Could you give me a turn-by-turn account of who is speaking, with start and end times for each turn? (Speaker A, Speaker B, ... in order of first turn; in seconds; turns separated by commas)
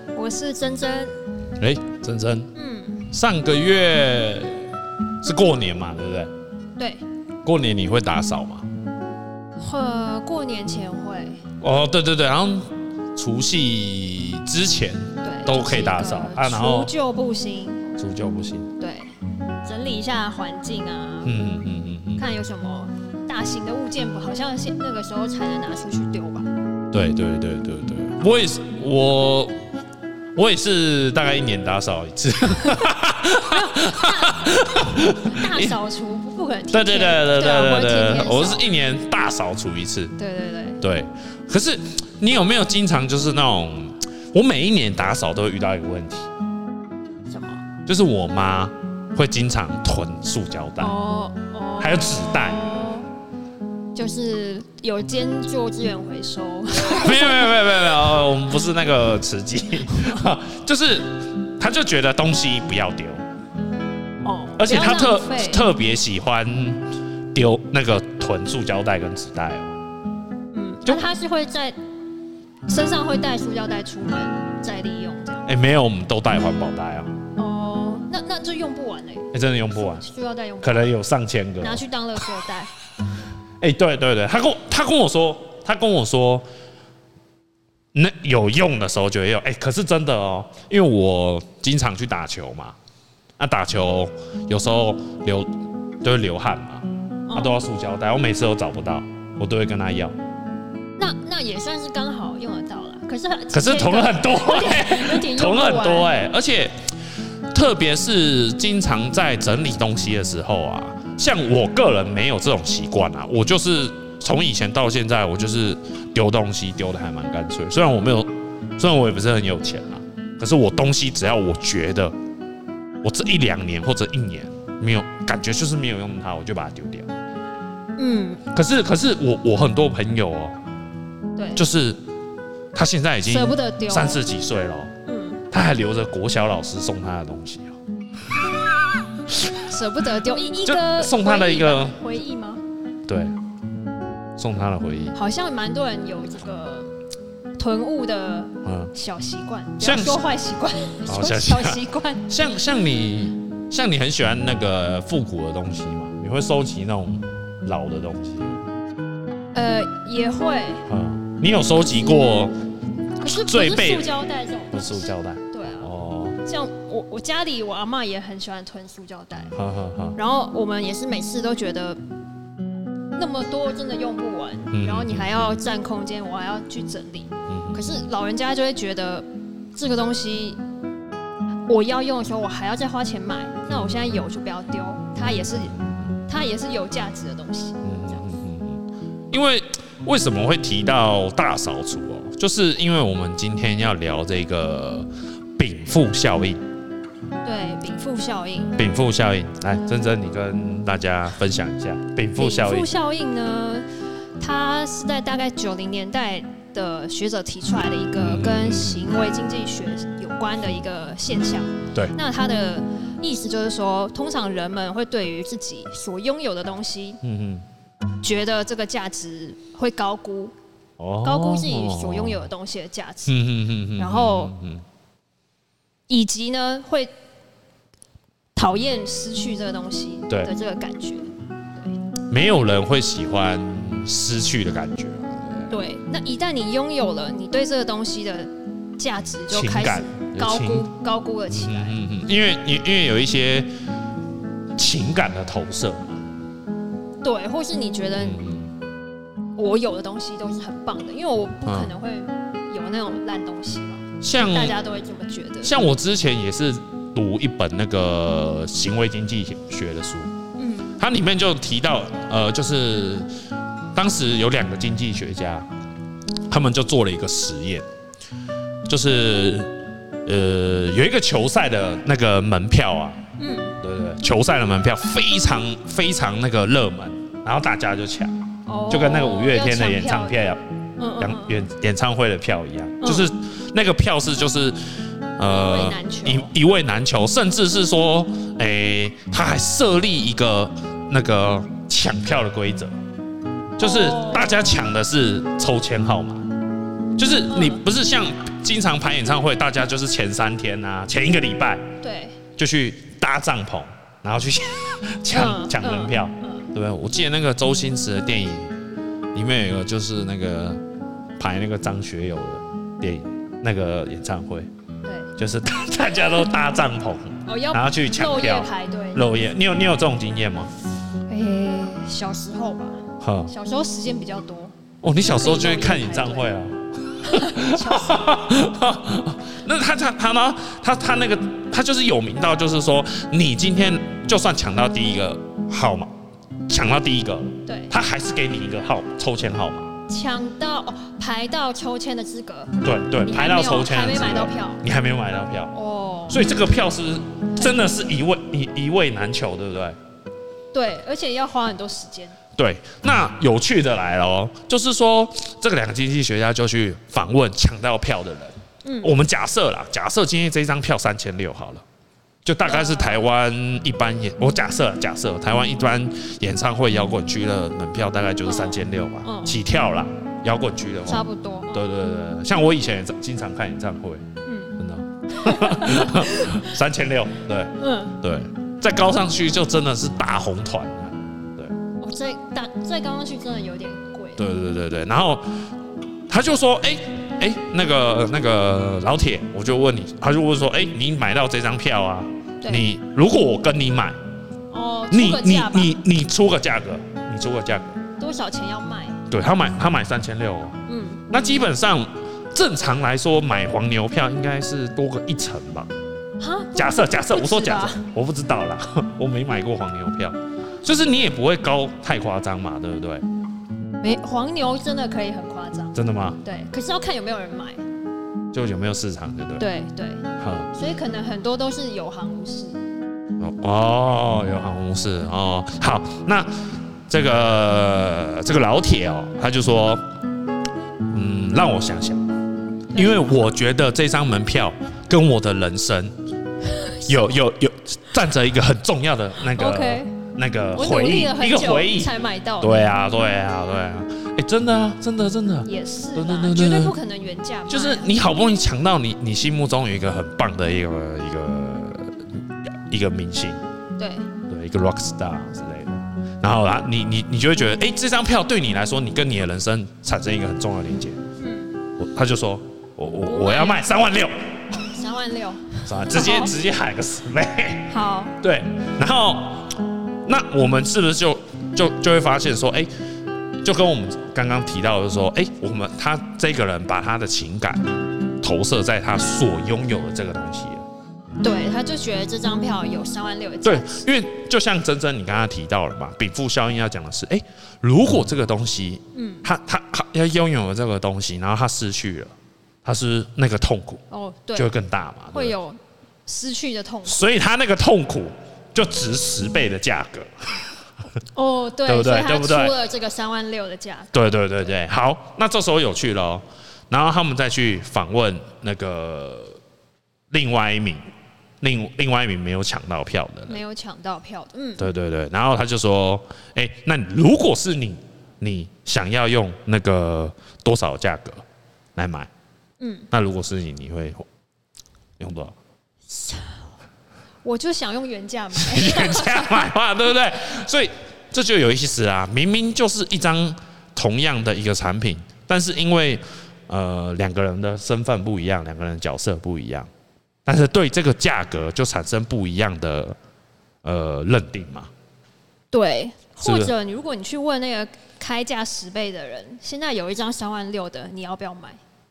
Speaker A: 0.1-1.2, Speaker B: 1.6-2.5, Speaker A: 2.5-3.1, Speaker B: 3.1-4.6, Speaker B: 5.2-6.3, Speaker A: 6.8-7.0, Speaker B: 7.4-8.7, Speaker A: 9.6-11.4, Speaker B: 11.6-16.9, Speaker A: 15.2-18.0, Speaker B: 18.0-18.7, Speaker A: 18.8-19.1, Speaker A: 19.6-21.3, Speaker B: 21.2-22.2, Speaker A: 22.2-26.5, Speaker B: 26.9-29.6, Speaker B: 30.3-35.8, Speaker A: 32.6-38.7, Speaker B: 36.7-40.1, Speaker A: 40.2-40.8, Speaker B: 40.8-46.3, Speaker A: 47.3-47.6, Speaker B: 47.9-51.0, Speaker A: 50.8-53.1, Speaker B: 51.8-52.6, Speaker A: 53.9-57.9, Speaker B: 56.8-63.2, Speaker A: 64.2-65.7, Speaker B: 64.6-69.7, Speaker A: 70.5-71.8, Speaker A: 72.7-75.5, Speaker B: 75.5-77.1, Speaker A: 77.3-80.9, Speaker B: 79.3-80.0, Speaker B: 80.6-81.8, Speaker A: 81.6-82.7, Speaker B: 83.6-86.5, Speaker B: 87.9-92.8, Speaker B: 93.4-95.5, Speaker B: 96.0-100.2, Speaker A: 97.3-97.6, Speaker A: 101.0-106.1, Speaker B: 103.5-106.7, Speaker B: 107.5-122.1, Speaker B: 123.0-127.1, Speaker A: 128.0-128.4, Speaker B: 128.5-130.6, Speaker A: 131.4-131.6, Speaker B: 131.6-132.0, Speaker B: 132.7-134.9, Speaker A: 133.2-134.2, Speaker A: 135.1-135.4, Speaker B: 135.5-137.8, Speaker B: 138.3-139.7, Speaker A: 139.6-142.6, Speaker B: 140.6-141.9, Speaker B: 143.1-143.3, Speaker B: 144.4-145.2, Speaker A: 145.1-146.9, Speaker A: 147.6-152.2, Speaker B: 148.6-148.9, Speaker B: 149.8-150.2, Speaker B: 151.1-158.6, Speaker A: 159.5-160.9, Speaker B: 160.9-162.5, Speaker A: 163.2-165.9, Speaker B: 163.3-164.1, Speaker B: 164.7-166.4, Speaker A: 166.4-169.5, Speaker B: 169.5-170.2, Speaker A: 170.1-172.0, Speaker A: 173.2-180.6, Speaker B: 174.7-175.5, Speaker B: 177.5-178.0, Speaker A: 181.7-185.8, Speaker B: 183.7-184.1, Speaker B: 185.2-186.2, Speaker A: 186.3-187.8, Speaker B: 187.8-196.6, Speaker A: 197.4-198.8, Speaker B: 198.8-203.0, Speaker A: 202.3-203.8, Speaker A: 204.4-217.2, Speaker B: 208.2-209.1, Speaker B: 217.2-217.7, Speaker A: 218.2-220.5, Speaker B: 221.0-222.4, Speaker A: 221.2-223.4, Speaker B: 223.3-224.8, Speaker A: 224.0-224.5, Speaker A: 226.1-227.1, Speaker A: 228.5-231.9, Speaker B: 232.3-235.7, Speaker A: 235.7-241.9, Speaker B: 239.5-240.9, Speaker B: 241.5-243.7, Speaker B: 244.8-246.2, Speaker A: 247.2-248.4, Speaker B: 248.2-248.7, Speaker A: 249.6-255.8, Speaker B: 251.6-251.9, Speaker B: 254.2-254.8, Speaker B: 255.6-260.3, Speaker A: 260.6-261.0, Speaker B: 261.0-263.3, Speaker B: 263.9-265.7, Speaker B: 266.5-267.9, Speaker B: 268.9-273.2, Speaker A: 273.4-273.8, Speaker B: 273.8-278.4, Speaker A: 278.7-280.4, Speaker B: 278.9-280.6, Speaker A: 281.0-281.7, Speaker B: 281.2-284.8, Speaker A: 283.0-283.3, Speaker B: 285.4-292.9, Speaker A: 285.5-286.5, Speaker B: 293.8-296.4, Speaker A: 293.8-294.8, Speaker B: 297.2-301.9, Speaker A: 297.5-297.8, Speaker A: 302.0-302.4, Speaker B: 302.6-308.7, Speaker A: 305.3-306.7, Speaker B: 309.3-310.8, Speaker B: 311.4-314.7, Speaker A: 315.0-315.3, Speaker B: 315.4-320.7, Speaker A: 317.4-319.3, Speaker A: 321.3-326.5, Speaker B: 323.2-323.5, Speaker B: 325.0-336.1, Speaker A: 327.2-328.4, Speaker B: 336.7-339.9, Speaker A: 337.6-337.9, Speaker A: 340.1-344.8, Speaker B: 342.8-345.7, Speaker A: 345.7-346.5, Speaker B: 346.3-350.0, Speaker A: 350.7-352.4, Speaker B: 352.6-361.8, Speaker A: 358.8-359.2, Speaker B: 362.4-374.2, Speaker A: 362.6-363.2, Speaker A: 368.4-369.6, Speaker A: 371.1-371.9, Speaker A: 374.4-374.8, Speaker B: 374.8-381.7, Speaker A: 375.3-376.7, Speaker A: 377.8-378.2, Speaker A: 382.0-384.4, Speaker B: 384.4-385.4, Speaker B: 386.3-394.2, Speaker A: 394.7-395.9, Speaker B: 395.1-397.9, Speaker A: 398.2-399.2, Speaker B: 399.3-400.8, Speaker A: 400.9-401.2, Speaker B: 401.3-405.9, Speaker A: 406.4-408.0, Speaker B: 406.8-413.2, Speaker A: 414.0-417.8, Speaker B: 415.9-416.4, Speaker B: 418.5-419.6, Speaker A: 419.6-422.8, Speaker B: 420.4-420.7, Speaker B: 423.4-426.5, Speaker B: 427.1-430.0, Speaker B: 431.1-432.3, Speaker A: 432.9-433.2, Speaker B: 432.9-436.1, Speaker A: 436.7-437.2, Speaker B: 437.1-446.9, Speaker A: 439.5-440.1, Speaker A: 440.7-442.9, Speaker A: 445.6-448.1, Speaker B: 447.7-452.2, Speaker B: 452.9-453.6, Speaker A: 454.0-454.3, Speaker B: 454.5-461.2, Speaker A: 461.4-461.8, Speaker B: 462.0-464.3, Speaker A: 463.2-463.9, Speaker A: 464.8-466.5, Speaker B: 465.9-472.9, Speaker A: 467.9-468.3, Speaker B: 473.6-477.9, Speaker B: 478.4-480.9, Speaker A: 481.4-484.1, Speaker B: 483.6-492.3, Speaker A: 489.1-489.4, Speaker B: 492.8-494.0, Speaker A: 494.1-494.7, Speaker B: 494.5-495.5, Speaker A: 495.3-497.3, Speaker B: 497.1-500.7, Speaker A: 501.3-504.1, Speaker B: 501.9-502.7, Speaker B: 504.1-509.6, Speaker B: 510.3-511.0, Speaker B: 511.6-513.6, Speaker A: 513.5-514.9, Speaker B: 514.8-521.4, Speaker B: 522.0-522.3, Speaker A: 522.8-523.1, Speaker B: 523.1-524.2, Speaker B: 525.2-525.5, Speaker A: 526.1-526.6, Speaker A: 527.4-529.7, Speaker B: 528.5-539.9, Speaker B: 540.5-543.2, Speaker B: 543.8-544.9, Speaker A: 545.7-551.8, Speaker B: 546.4-546.7